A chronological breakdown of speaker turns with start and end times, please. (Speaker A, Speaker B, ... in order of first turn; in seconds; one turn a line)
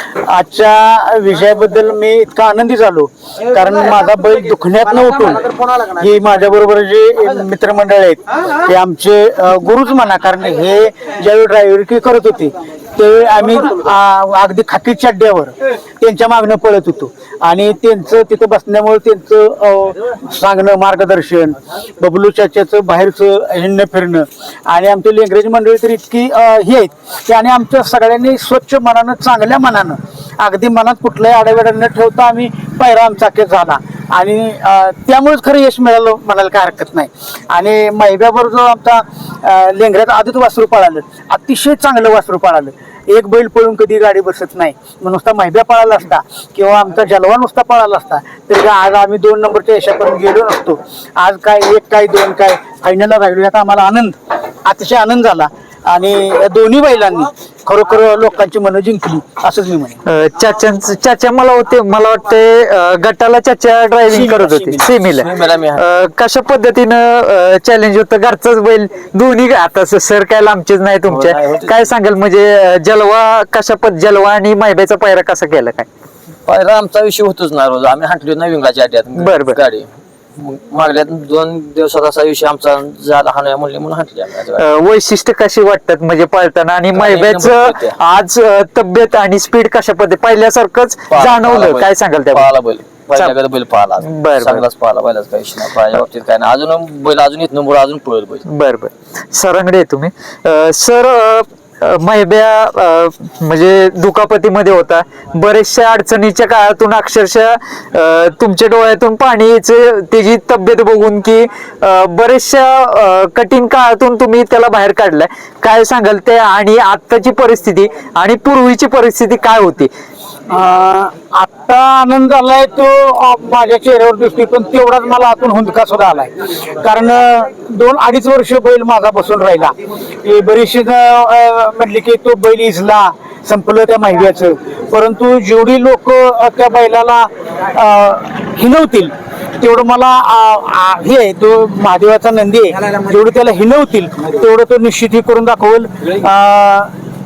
Speaker A: 0.2-60.0
Speaker B: 60.0-75.9
Speaker A: 64.1-64.9
Speaker C: 65.1-65.8
Speaker C: 71.1-71.8
Speaker C: 76.5-84.6
Speaker B: 79.2-79.6
Speaker B: 84.6-92.5
Speaker C: 86.9-88.0
Speaker C: 91.1-98.4
Speaker B: 94.0-94.6
Speaker B: 98.5-119.9
Speaker A: 120.5-146.9